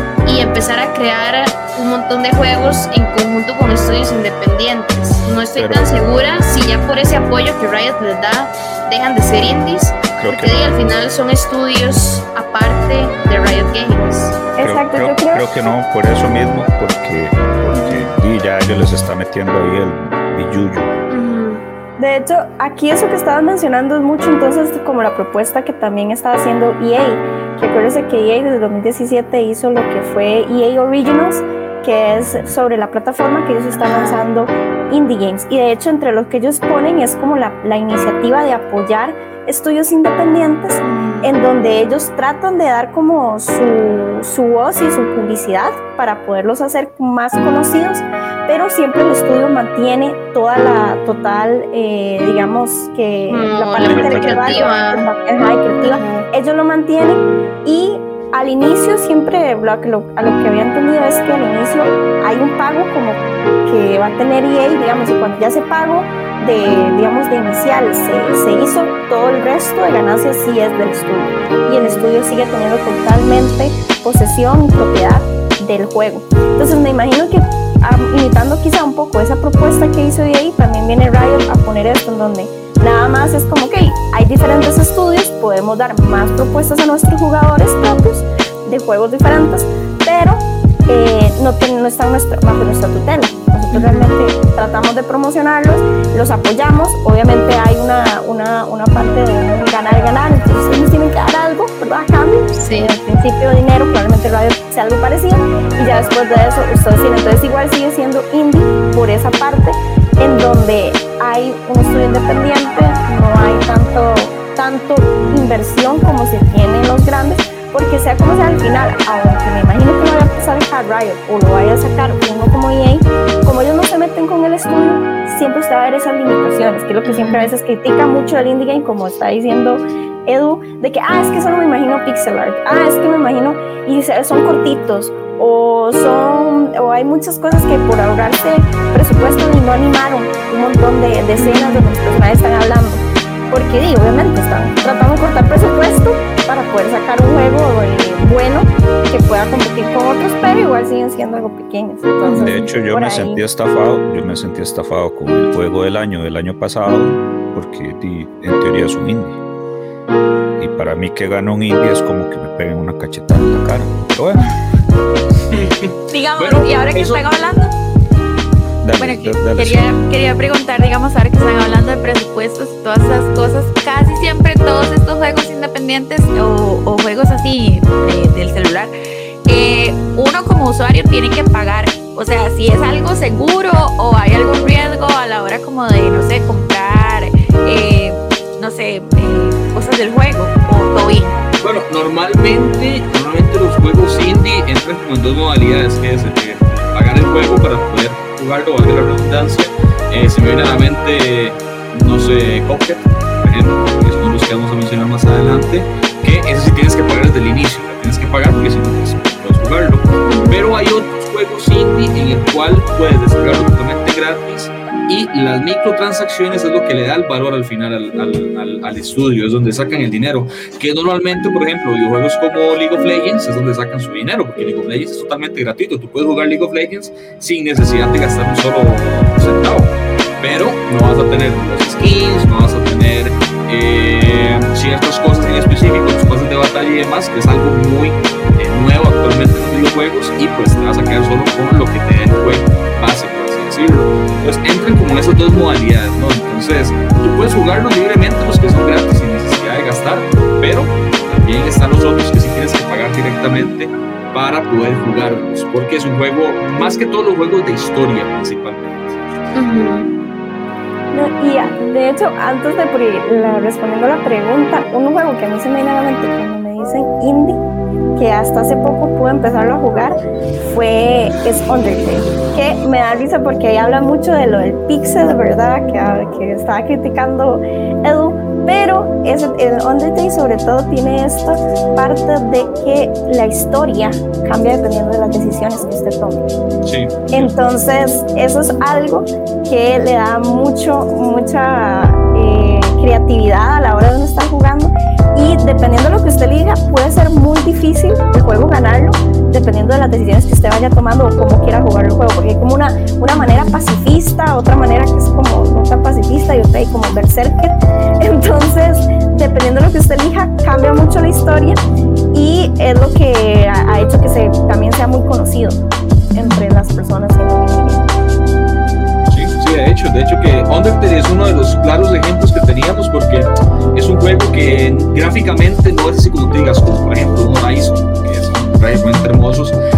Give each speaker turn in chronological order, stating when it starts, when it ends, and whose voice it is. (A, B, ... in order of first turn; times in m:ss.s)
0:00.2-0:14.4 A
0:05.6-0:06.0 B
0:10.2-0:10.8 B
0:14.6-0:15.4 C
0:14.6-0:20.9 B
0:17.7-0:18.1 A
0:21.1-0:21.6 A
0:22.0-2:33.4 C
0:33.7-0:34.2 A
0:40.8-0:41.3 A
0:53.3-0:55.1 A
0:53.8-0:54.7 B
0:55.8-0:56.2 A
1:33.7-1:34.1 A
1:42.6-1:43.0 A
2:07.0-2:07.5 A
2:21.4-2:21.9 A
2:32.2-2:32.6 A
2:32.3-2:39.4 B
2:40.6-2:44.4 B
2:45.5-2:47.2 D
2:46.1-2:47.7 E
2:48.8-2:49.9 B
2:49.0-2:58.9 E
2:59.5-3:11.4 E
3:11.6-4:19.2 D
4:19.5-4:20.1 A
4:21.1-4:27.6 C
4:28.2-4:46.5 C
4:46.8-4:47.5 D
4:47.3-5:11.8 C
5:12.3-5:15.8 C
5:16.3-5:18.1 C
5:19.3-5:29.8 D